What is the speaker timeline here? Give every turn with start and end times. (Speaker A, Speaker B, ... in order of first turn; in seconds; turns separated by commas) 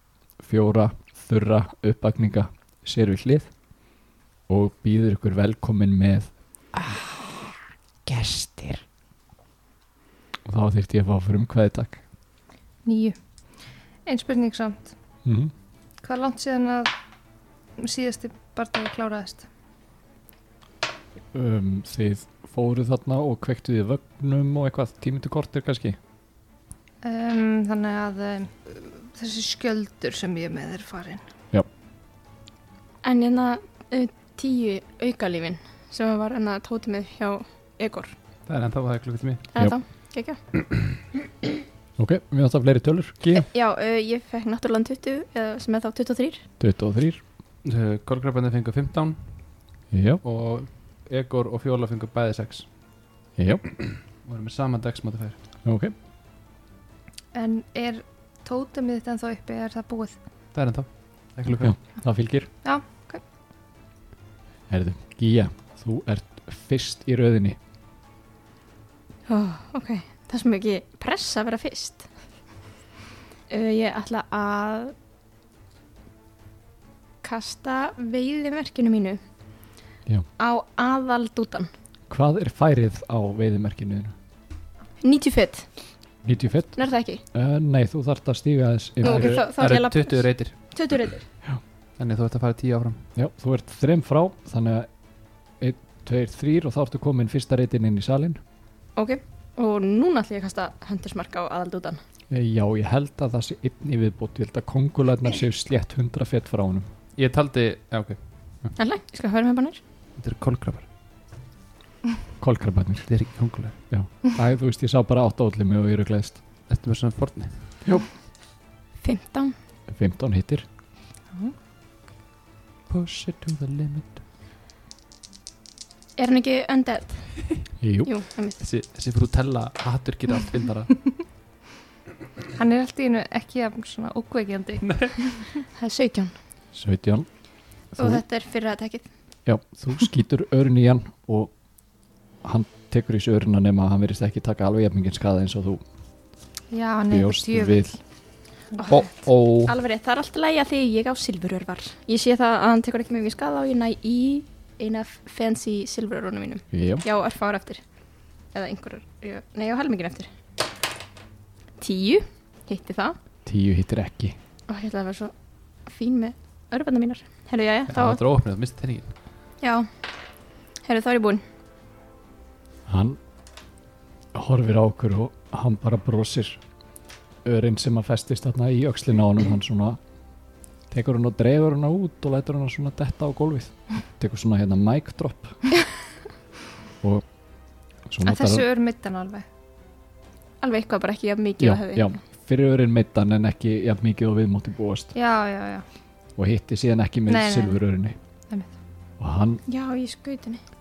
Speaker A: 0.4-3.5, Speaker A: 4.5-7.2, Speaker A: 8.1-8.8, Speaker A: 10.4-12.0, Speaker B: 12.8-13.2, Speaker B: 14.1-14.9, Speaker A: 15.2-15.5, Speaker B: 16.0-16.9, Speaker B: 17.8-19.5, Speaker A: 21.3-25.9, Speaker B: 27.0-31.2, Speaker C: 33.0-38.1, Speaker D: 38.5-39.5, Speaker C: 39.5-40.4, Speaker A: 42.0-43.5, Speaker C: 43.3-46.5, Speaker A: 46.6-47.2, Speaker D: 47.6-49.4, Speaker A: 49.9-50.2, Speaker D: 50.2-52.7, Speaker A: 53.4-53.7, Speaker D: 53.9-55.4, Speaker A: 55.6-55.9, Speaker B: 57.3-60.1, Speaker D: 60.5-61.8, Speaker A: 61.5-62.5, Speaker B: 62.6-63.2, Speaker A: 64.7-67.6, Speaker C: 69.3-72.1, Speaker C: 73.5-74.9, Speaker C: 77.2-79.2, Speaker C: 80.4-81.7, Speaker A: 82.1-84.1, Speaker C: 85.0-85.7, Speaker A: 86.2-89.4, Speaker C: 86.8-87.2, Speaker C: 89.0-91.2, Speaker D: 89.0-91.2, Speaker D: 92.0-93.0, Speaker A: 93.2-94.9, Speaker A: 95.6-98.4, Speaker C: 99.0-102.0, Speaker A: 102.3-106.9, Speaker D: 107.1-108.8, Speaker C: 108.8-109.8, Speaker D: 110.2-110.8, Speaker A: 112.4-113.1, Speaker D: 113.1-113.8, Speaker A: 113.9-116.4, Speaker D: 116.7-117.8, Speaker C: 119.0-119.5, Speaker A: 119.9-120.6, Speaker D: 122.9-124.2, Speaker C: 126.2-127.5, Speaker A: 127.8-128.1, Speaker C: 128.0-128.6, Speaker D: 128.6-131.1, Speaker B: 132.6-135.5, Speaker D: 134.8-135.2, Speaker C: 135.7-136.3, Speaker A: 136.7-137.3, Speaker A: 137.9-138.2, Speaker C: 138.0-139.1, Speaker A: 139.4-141.5, Speaker A: 142.4-145.8, Speaker B: 146.7-148.0, Speaker A: 147.1-147.9, Speaker B: 148.7-149.0, Speaker C: 148.8-149.0, Speaker D: 148.9-149.7, Speaker C: 149.6-157.8, Speaker A: 156.7-157.0, Speaker C: 158.5-160.3, Speaker C: 161.8-163.2, Speaker A: 163.4-164.3, Speaker C: 164.7-165.3, Speaker C: 165.8-168.2, Speaker D: 167.9-169.1, Speaker C: 169.6-169.9, Speaker C: 170.8-171.4, Speaker A: 172.9-173.2, Speaker A: 174.3-176.6, Speaker A: 177.4-180.0, Speaker A: 180.9-185.6, Speaker A: 188.1-188.6, Speaker B: 188.2-189.4, Speaker C: 190.6-192.1, Speaker A: 191.6-195.1, Speaker B: 195.1-195.8, Speaker A: 196.4-198.2, Speaker B: 197.3-197.8, Speaker A: 199.2-199.6, Speaker C: 199.7-200.6